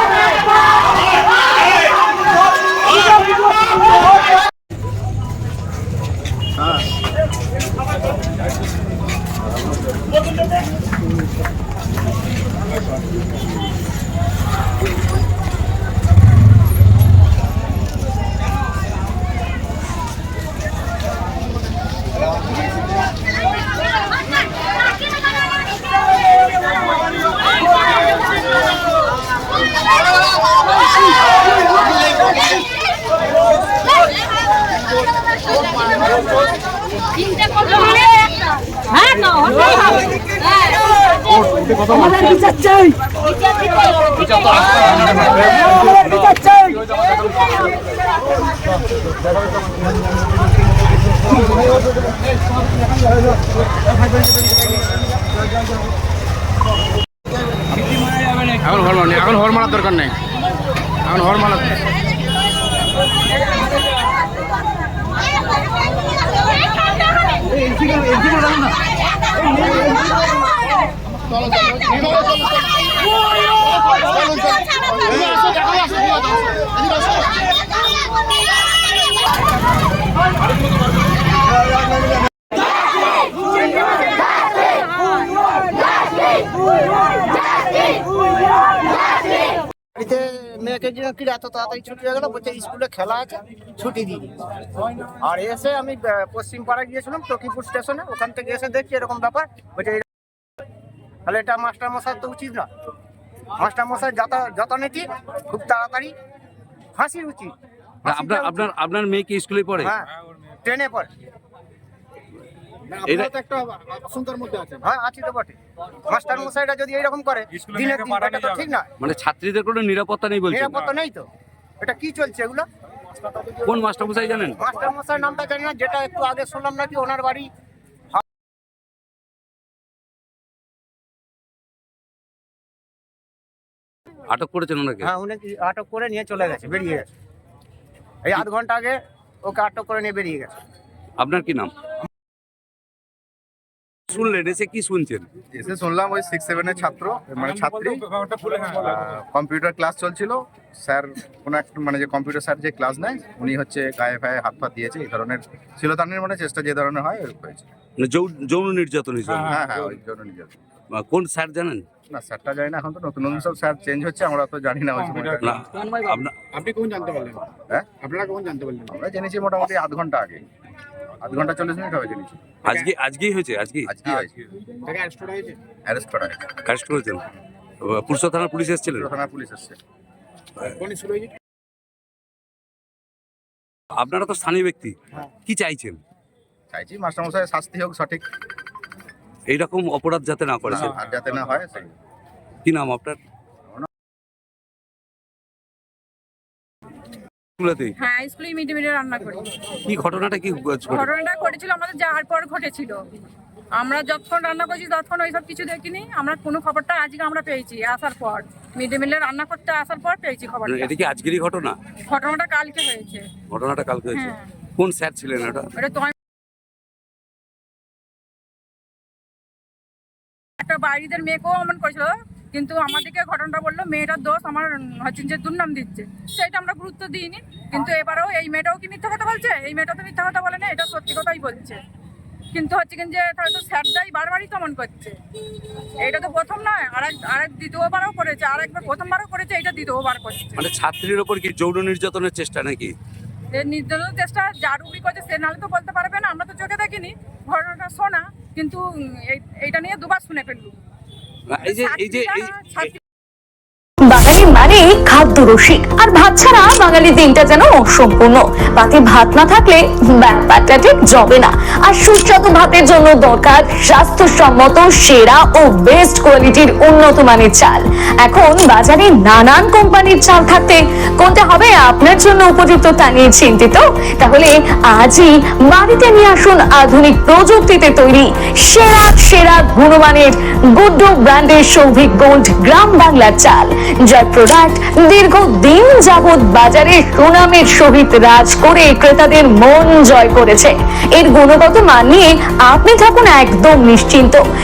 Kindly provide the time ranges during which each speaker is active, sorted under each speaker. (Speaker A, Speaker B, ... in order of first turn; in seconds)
Speaker A: 57.9-58.6, 108.1-109.9, 113.0-113.3, 119.0-120.9, 123.7-124.6, 134.3-135.1, 141.2-141.7, 144.1-145.3, 158.0-159.6, 161.0-161.8, 165.4-166.3, 172.6-173.9, 176.7-177.2, 177.8-179.1, 184.0-186.0, 189.5-190.9, 192.7-193.2, 197.6-197.9, 199.9-201.1, 210.7-211.8, 213.5-215.7, 240.6-242.9, 251.5-252.5
Speaker B: 58.6-60.2, 61.0-61.8, 112.9-114.8, 166.5-168.9, 174.8-175.6, 180.8-181.3
Speaker C: 90.0-94.4, 95.2-100.0, 101.3-102.7, 103.6-106.1, 107.0-107.5, 108.0-108.7, 109.8-110.1, 110.7-111.1, 114.8-115.6, 116.1-118.9, 120.5-121.3, 121.8-122.7, 124.6-127.5, 135.0-137.1, 138.2-140.5
Speaker D: 145.5-157.7, 159.4-160.6, 162.1-165.6, 168.9-170.4, 171.2-172.4, 173.9-174.3, 175.9-176.6, 178.9-179.8, 186.7-188.2, 190.7-191.9
Speaker E: 198.0-199.5, 200.9-203.0, 203.8-210.9, 212.1-213.3, 214.1-214.4, 215.8-216.1, 220.6-231.8, 232.5-235.2, 236.0-240.7, 243.5-250.8, 251.6-253.0
Speaker F: 254.1-294.4